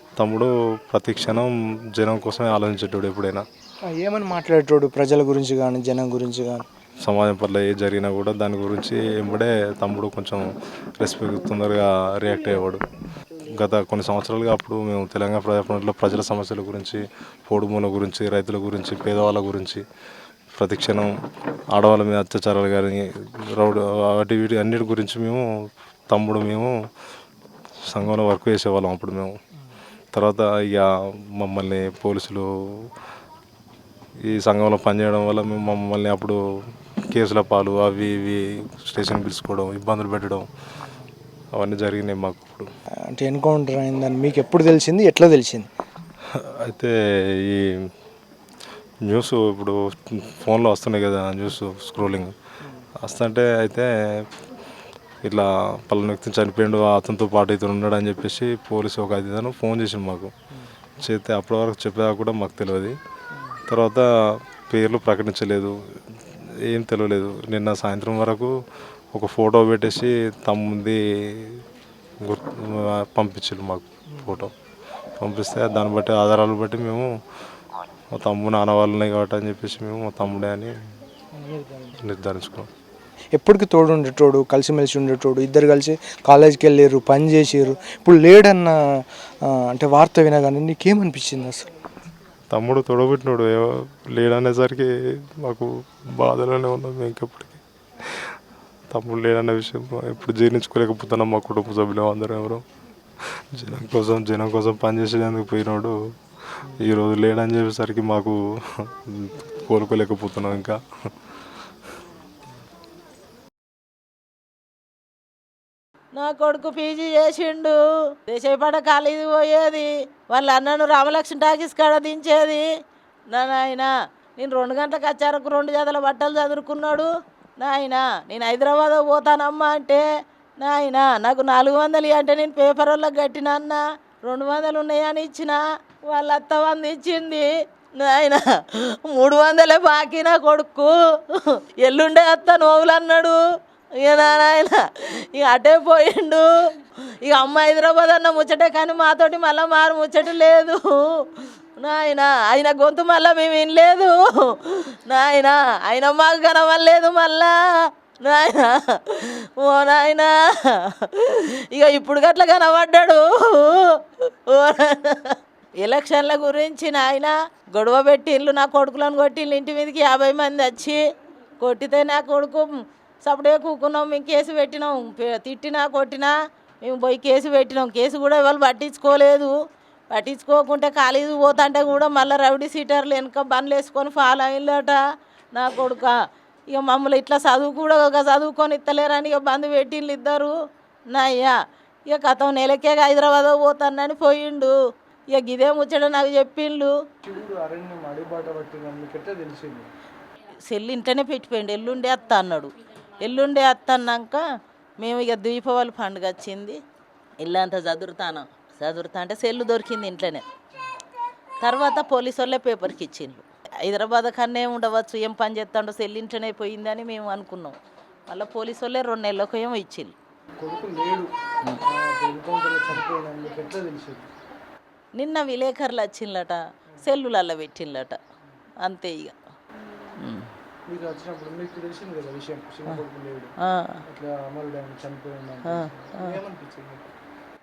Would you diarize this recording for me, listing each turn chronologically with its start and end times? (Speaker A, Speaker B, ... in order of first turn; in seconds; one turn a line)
Speaker A: 0.2-3.4
Speaker B: 3.9-6.6
Speaker A: 7.0-12.8
Speaker A: 13.6-19.8
Speaker A: 20.6-21.1
Speaker A: 21.7-25.4
Speaker A: 26.1-26.7
Speaker A: 27.9-29.4
Speaker A: 30.1-30.9
Speaker A: 31.4-32.5
Speaker A: 34.3-36.4
Speaker A: 37.1-40.5
Speaker A: 41.6-42.7
Speaker B: 43.1-45.7
Speaker A: 46.4-46.9
Speaker A: 47.5-47.9
Speaker A: 49.0-52.3
Speaker A: 53.0-53.9
Speaker A: 55.3-60.3
Speaker A: 61.0-63.0
Speaker A: 63.7-64.1
Speaker A: 64.7-68.5
Speaker A: 69.1-71.6
Speaker A: 72.2-74.5
Speaker B: 74.2-74.5
Speaker A: 75.2-77.1
Speaker A: 78.1-80.7
Speaker B: 81.3-82.0
Speaker A: 82.0-82.7
Speaker B: 83.3-91.7
Speaker A: 92.5-94.9
Speaker A: 95.4-98.4
Speaker A: 98.9-102.6
Speaker A: 103.2-105.9
Speaker A: 106.5-111.3
Speaker C: 116.2-122.6
Speaker C: 123.3-130.0
Speaker C: 130.6-137.5
Speaker C: 138.0-143.4
Speaker C: 144.0-150.9
Speaker C: 151.8-157.5
Speaker C: 158.3-171.0
Speaker C: 171.6-172.7
Speaker C: 173.2-176.3
Speaker C: 176.8-179.5
Speaker C: 180.1-185.0
Speaker C: 185.5-186.1
Speaker C: 186.7-190.5
Speaker C: 191.1-191.5
Speaker C: 192.1-194.7
Speaker C: 195.3-196.9
Speaker B: 197.2-199.9
Speaker C: 200.7-204.4
Speaker C: 205.0-206.8
Speaker C: 207.4-210.4
Speaker C: 211.6-217.8
Speaker C: 218.3-220.1
Speaker B: 220.6-221.3
Speaker B: 221.8-224.3
Speaker C: 225.2-228.2
Speaker C: 228.8-229.4
Speaker C: 230.2-230.5
Speaker B: 230.9-233.5
Speaker C: 233.7-233.9
Speaker B: 234.1-237.1
Speaker C: 235.7-236.3